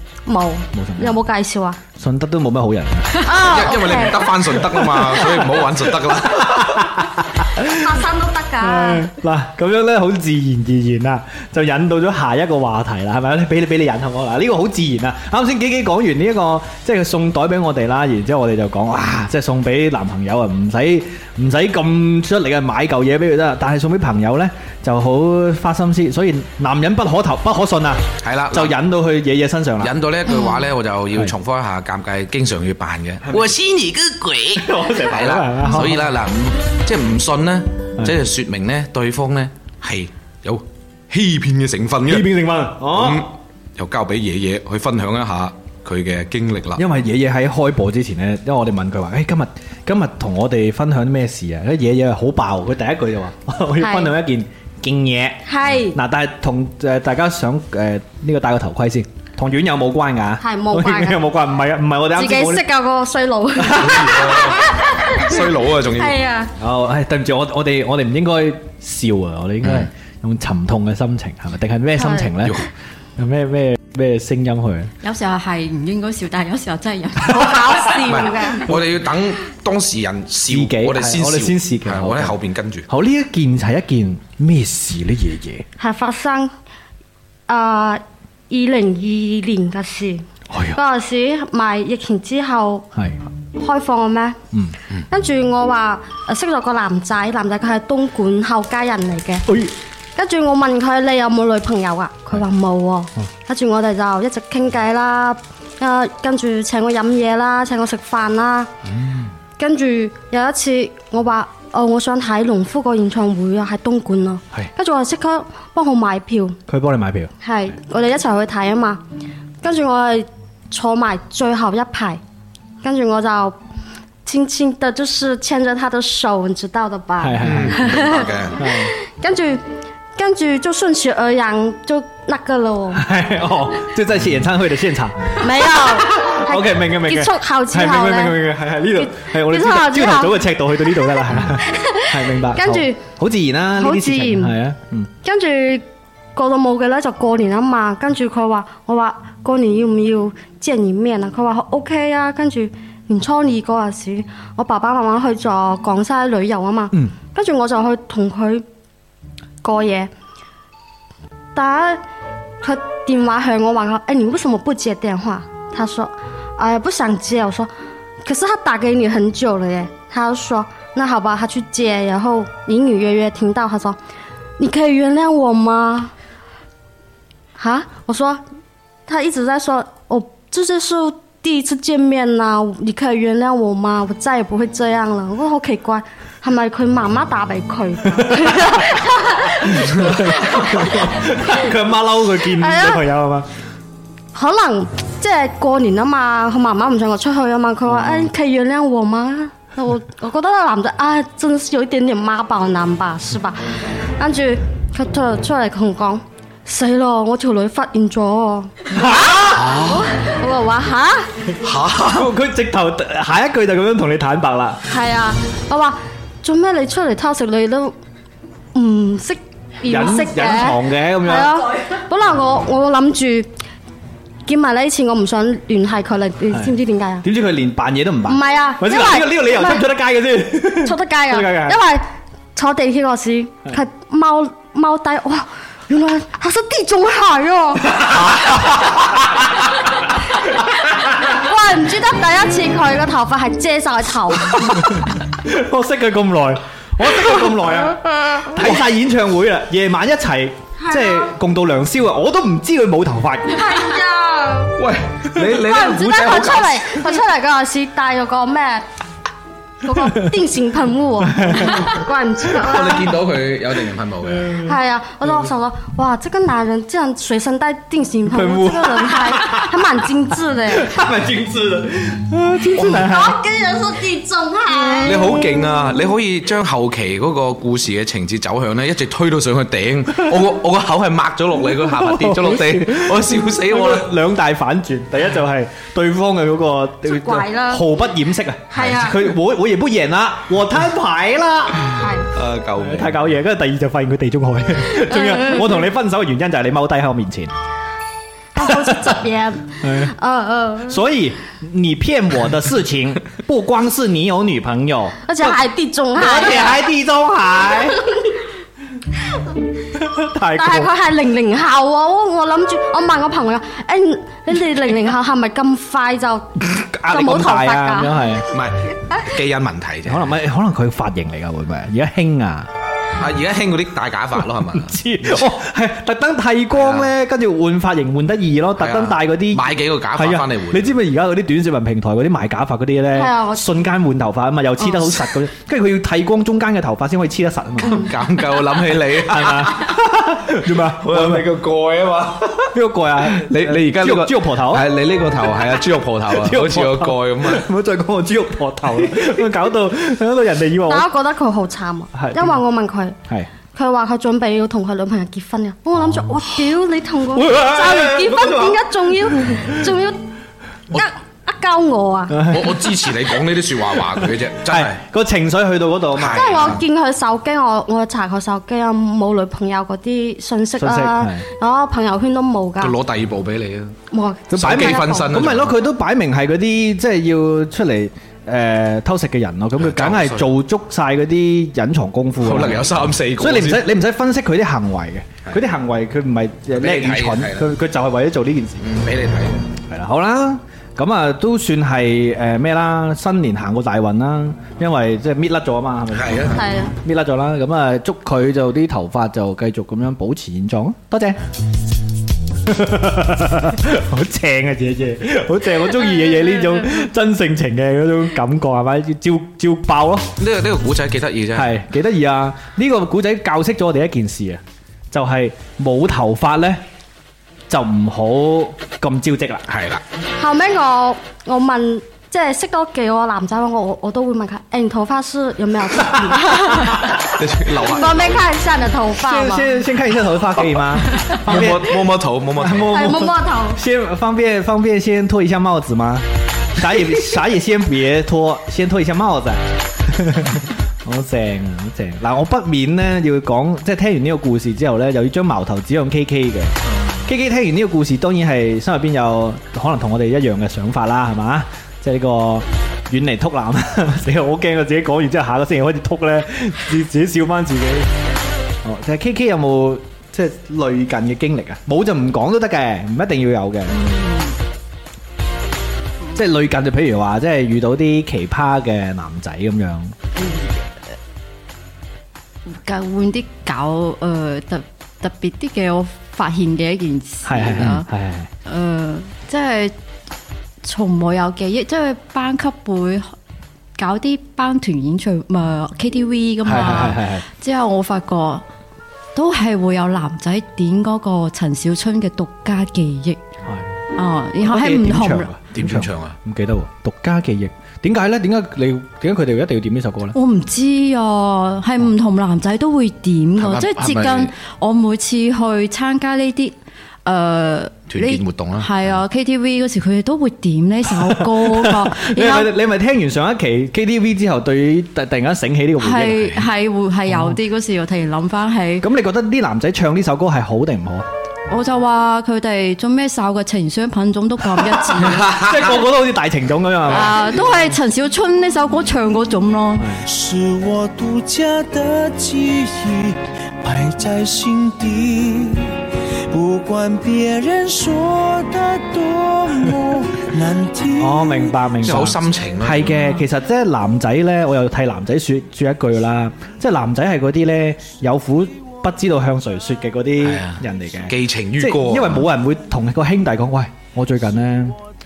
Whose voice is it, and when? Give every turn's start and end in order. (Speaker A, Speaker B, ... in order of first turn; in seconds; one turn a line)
Speaker A: 0.2-1.8
Speaker B: 0.7-1.2
Speaker B: 1.9-3.3
Speaker A: 3.2-4.3
Speaker C: 3.4-7.0
Speaker B: 4.9-7.9
Speaker A: 7.6-9.1
Speaker B: 8.6-30.0
Speaker C: 28.2-28.8
Speaker C: 29.8-42.3
Speaker B: 33.2-33.5
Speaker B: 34.5-36.1
Speaker B: 42.0-43.3
Speaker C: 42.9-46.8
Speaker B: 46.8-62.7
Speaker A: 53.8-54.1
Speaker A: 55.5-56.0
Speaker A: 60.4-61.2
Speaker A: 62.1-65.4
Speaker B: 63.6-64.4
Speaker C: 63.8-66.2
Speaker A: 65.9-66.5
Speaker B: 66.6-74.9
Speaker C: 69.6-69.9
Speaker A: 72.0-72.3
Speaker D: 75.0-77.9
Speaker A: 77.3-78.7
Speaker C: 78.1-82.8
Speaker B: 80.5-82.3
Speaker B: 82.9-85.6
Speaker A: 85.8-86.5
Speaker A: 87.5-92.9
Speaker B: 90.5-90.8
Speaker B: 92.9-93.2
Speaker A: 93.5-94.4
Speaker B: 94.5-94.8
Speaker A: 95.1-99.5
Speaker B: 99.5-99.7
Speaker A: 100.2-108.7
Speaker A: 109.6-116.6
Speaker B: 116.7-117.3
Speaker A: 117.4-119.0
Speaker A: 119.6-122.2
Speaker A: 122.8-123.5
Speaker A: 124.2-129.6
Speaker B: 127.2-128.9
Speaker C: 127.4-128.6
Speaker A: 130.2-133.0
Speaker B: 132.9-145.1
Speaker A: 135.4-138.4
Speaker A: 138.9-140.4
Speaker A: 141.6-143.0
Speaker A: 143.8-144.5
Speaker A: 145.2-145.8
Speaker A: 146.3-158.6
Speaker A: 159.6-160.1
Speaker A: 161.5-162.0
Speaker A: 162.6-167.7
Speaker A: 168.2-174.0
Speaker A: 174.6-176.1
Speaker A: 177.6-178.4
Speaker A: 179.1-191.6
Speaker B: 188.1-188.8
Speaker B: 189.6-193.5
Speaker A: 192.5-193.0
Speaker A: 194.3-203.6
Speaker A: 204.2-211.3
Speaker B: 208.9-209.8
Speaker C: 209.6-209.9
Speaker C: 211.6-212.2
Speaker B: 212.0-214.8
Speaker A: 214.8-217.9
Speaker A: 218.7-223.5
Speaker B: 219.9-221.6
Speaker A: 224.4-227.2
Speaker B: 226.5-231.8
Speaker A: 228.2-229.8
Speaker A: 230.8-238.1
Speaker B: 238.0-238.8
Speaker A: 240.5-245.0
Speaker B: 244.9-253.7
Speaker A: 250.8-251.3
Speaker A: 253.5-254.7
Speaker C: 254.8-257.0
Speaker A: 255.6-258.8
Speaker A: 259.8-263.1
Speaker B: 261.3-261.8
Speaker C: 262.5-264.5
Speaker B: 264.4-264.7
Speaker A: 264.6-270.9
Speaker B: 268.3-269.8
Speaker B: 270.7-273.4
Speaker A: 272.8-275.2
Speaker C: 275.0-284.1
Speaker B: 275.1-275.4
Speaker B: 281.7-292.0
Speaker A: 287.1-287.8
Speaker A: 288.7-289.2
Speaker A: 292.0-292.3
Speaker C: 292.3-293.2
Speaker B: 292.8-297.5
Speaker A: 295.1-295.6
Speaker A: 298.5-301.0
Speaker B: 298.6-298.9
Speaker B: 299.8-300.1
Speaker B: 300.9-305.6
Speaker A: 305.2-306.8
Speaker B: 306.1-308.2
Speaker B: 309.9-310.9
Speaker A: 310.5-316.6
Speaker B: 316.6-318.5
Speaker A: 317.1-318.3
Speaker C: 318.5-320.3
Speaker B: 320.0-322.7
Speaker C: 323.2-324.9
Speaker B: 324.7-338.1
Speaker C: 326.7-327.1
Speaker C: 328.8-330.9
Speaker A: 333.1-333.6
Speaker C: 334.8-335.4
Speaker C: 337.8-340.0
Speaker B: 338.9-341.5
Speaker C: 341.0-342.7
Speaker B: 342.7-344.9
Speaker C: 343.3-347.6
Speaker B: 346.3-351.1
Speaker A: 350.9-353.2
Speaker B: 352.1-352.6
Speaker A: 353.7-360.2
Speaker B: 357.3-358.8
Speaker A: 360.9-362.5
Speaker B: 362.3-362.9
Speaker C: 362.5-365.0
Speaker B: 364.7-366.8
Speaker C: 366.1-366.8
Speaker A: 366.3-372.9
Speaker B: 370.8-371.4
Speaker C: 372.8-373.9
Speaker A: 374.1-375.3
Speaker B: 374.5-388.8
Speaker C: 374.5-375.7
Speaker C: 379.8-380.4
Speaker C: 382.4-383.9
Speaker C: 386.8-387.7
Speaker C: 388.8-389.6
Speaker B: 389.9-401.4
Speaker C: 396.1-396.6
Speaker A: 396.5-396.9
Speaker B: 402.6-410.3
Speaker C: 410.4-411.8
Speaker B: 411.5-416.8
Speaker B: 417.7-419.6
Speaker C: 419.7-420.0
Speaker A: 420.4-427.1
Speaker C: 427.1-428.4
Speaker A: 427.8-429.7
Speaker B: 429.2-458.1
Speaker C: 431.2-432.9
Speaker A: 432.9-433.8
Speaker B: 458.8-464.0
Speaker D: 463.9-464.6
Speaker B: 466.3-470.1
Speaker D: 470.3-471.1
Speaker D: 472.7-478.1
Speaker B: 477.4-478.5
Speaker D: 478.6-479.9
Speaker D: 480.8-483.3
Speaker D: 484.0-488.6
Speaker B: 486.6-487.4
Speaker D: 489.3-493.4
Speaker D: 494.1-495.5
Speaker B: 494.6-500.4
Speaker C: 495.7-496.4
Speaker D: 500.3-512.7
Speaker C: 503.6-504.5
Speaker C: 508.1-509.2
Speaker B: 511.1-516.7
Speaker D: 516.0-519.0
Speaker B: 517.3-517.6
Speaker B: 519.0-521.3
Speaker D: 521.7-525.6
Speaker B: 525.1-527.6
Speaker D: 527.1-530.1
Speaker E: 530.2-536.0
Speaker E: 536.5-541.9
Speaker B: 541.2-555.0
Speaker C: 542.0-543.2
Speaker C: 550.4-552.4